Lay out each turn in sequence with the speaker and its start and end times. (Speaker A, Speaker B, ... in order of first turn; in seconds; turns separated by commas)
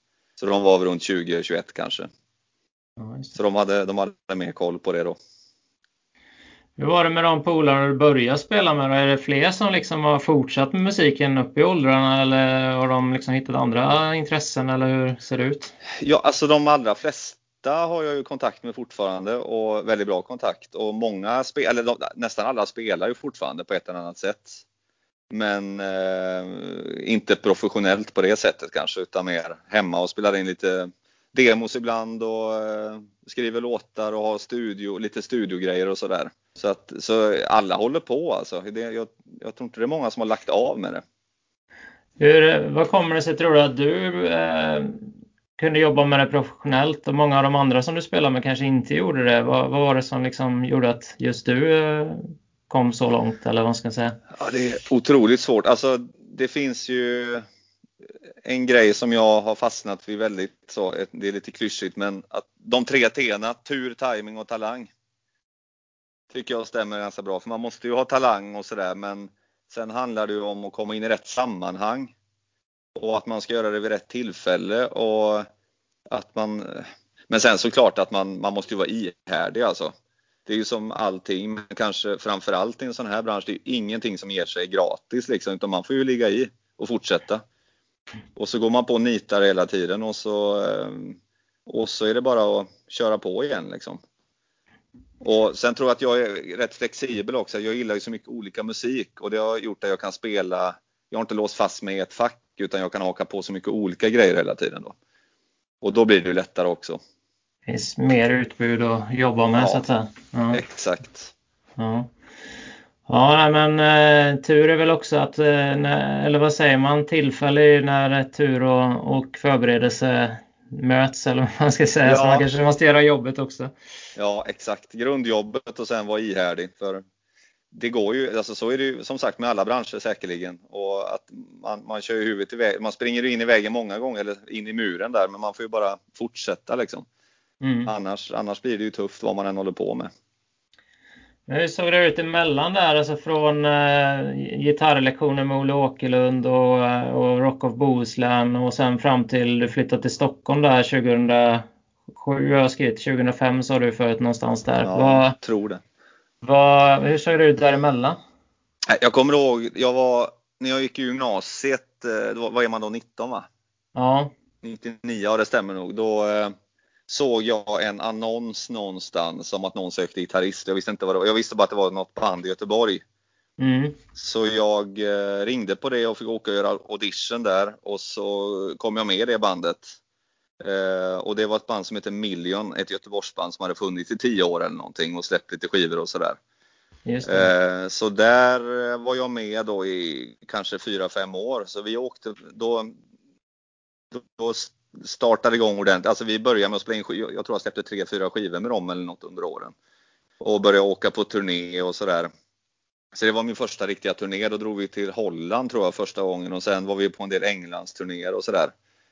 Speaker A: 0.4-2.1, Speaker B: 3.0-3.3, Speaker A: 3.4-5.2, Speaker B: 6.8-15.7, Speaker A: 16.0-24.6, Speaker A: 25.3-41.0, Speaker B: 42.2-54.2, Speaker A: 54.3-57.4, Speaker A: 58.4-64.9, Speaker A: 66.3-72.1, Speaker A: 72.9-75.5, Speaker A: 76.1-79.9, Speaker A: 80.5-87.4, Speaker A: 88.3-94.0, Speaker A: 95.2-105.0, Speaker A: 105.8-107.0, Speaker B: 107.7-110.6, Speaker A: 109.5-109.8, Speaker A: 110.5-111.3, Speaker B: 111.8-112.1, Speaker B: 113.1-123.7, Speaker A: 122.0-122.5, Speaker A: 124.2-127.0, Speaker A: 127.7-137.1, Speaker B: 137.6-137.9, Speaker A: 137.9-140.1, Speaker B: 141.5-155.4, Speaker A: 154.8-155.8, Speaker B: 156.4-158.2, Speaker A: 158.9-163.5, Speaker B: 163.9-164.3, Speaker A: 164.6-166.5, Speaker A: 167.1-173.0, Speaker B: 173.6-174.0, Speaker A: 174.2-179.9, Speaker A: 180.6-186.4, Speaker B: 187.1-187.5, Speaker A: 187.2-192.9, Speaker A: 194.1-199.7, Speaker A: 200.4-202.3, Speaker A: 203.1-208.7